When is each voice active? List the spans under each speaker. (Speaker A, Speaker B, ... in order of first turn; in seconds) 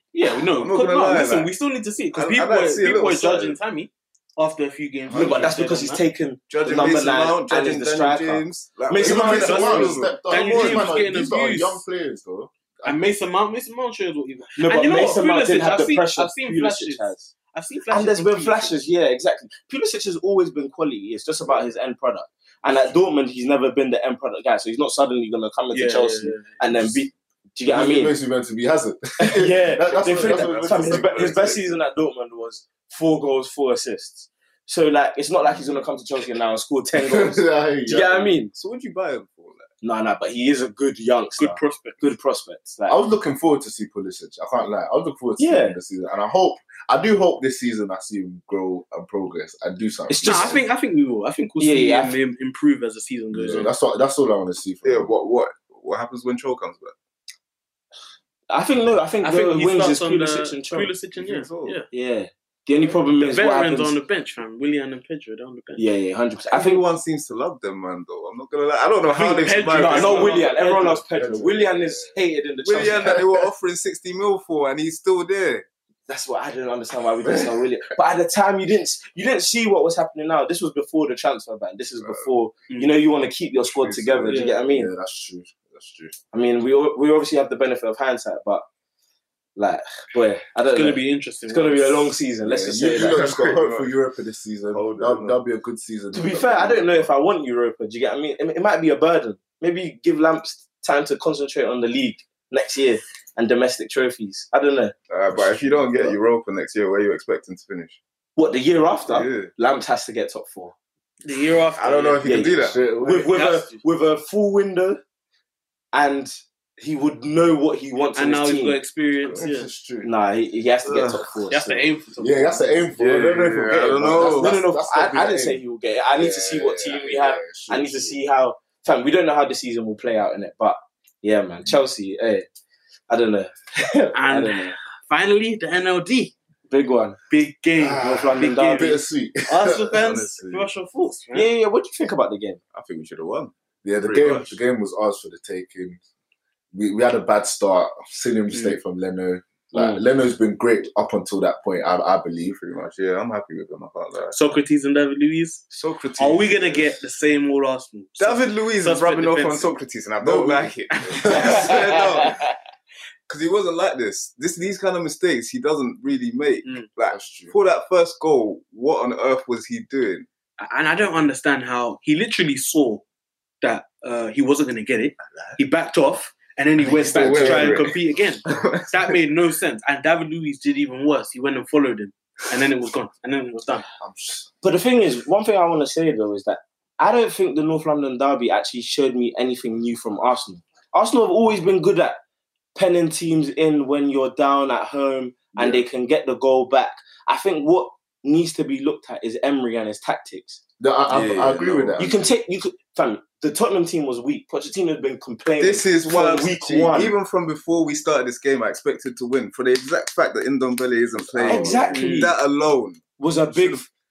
Speaker A: 0.1-6.0, 9.4-11.8, 12.8-18.8, 25.7-26.5, 41.4-42.1, 50.2-53.7, 59.2-61.9, 63.3-65.9, 69.1-71.0, 82.7-83.0, 84.3-84.6, 90.7-92.1, 111.2-112.5, 113.2-113.8, 118.2-119.7, 121.5-122.9, 134.2-136.3, 137.3-138.9, 139.5-141.5, 148.5-148.8, 154.3-155.7, 156.2-159.8, 160.3-162.0, 170.6-173.0, 173.6-183.9, 211.9-212.3
Speaker B: 0.5-1.5, 2.1-3.6, 6.5-10.9, 29.9-31.8, 38.5-39.7, 54.8-57.0, 61.1-61.8, 66.5-70.5, 72.6-75.7, 83.7-84.3, 93.1-93.9, 94.7-95.4, 105.1-108.0, 109.1-109.5, 111.8-112.8, 120.8-121.3, 123.0-124.6, 140.0-140.7, 142.7-144.6, 152.6-154.4, 155.7-156.9, 158.2-162.5, 163.3-170.3, 177.0-179.2, 201.1-202.2, 205.6-213.9
Speaker C: 5.1-5.5, 9.0-13.1, 27.6-31.4, 37.0-38.3, 42.9-50.6, 53.3-55.1, 71.1-72.2, 73.0-73.5, 84.2-86.1, 92.4-97.1, 105.3-106.2, 112.7-113.3, 119.3-120.1, 122.2-125.6, 126.1-128.2, 137.8-140.3, 143.8-146.0, 146.7-152.6, 160.2-161.7, 167.1-167.6, 177.2-177.6, 184.0-184.5, 200.8-202.2, 211.3-212.1
Speaker D: 5.1-10.0, 14.6-17.3, 17.9-28.2, 29.2-38.5, 39.8-43.0, 45.4-45.8, 50.1-50.6, 51.6-52.2, 58.5-60.9, 61.9-64.0, 65.8-66.8, 69.7-73.2, 76.1-84.9, 86.3-88.7, 89.6-93.3, 96.1-105.0, 108.4-110.8, 112.2-115.0, 115.9-118.8, 120.0-121.9, 124.2-132.5, 133.1-134.8, 136.7-137.2, 138.0-139.0, 141.3-142.6, 149.7-150.0, 161.3-162.5, 177.2-177.7, 184.6-192.2, 192.8-200.6, 202.0-207.2, 211.4-212.3, 213.2-213.9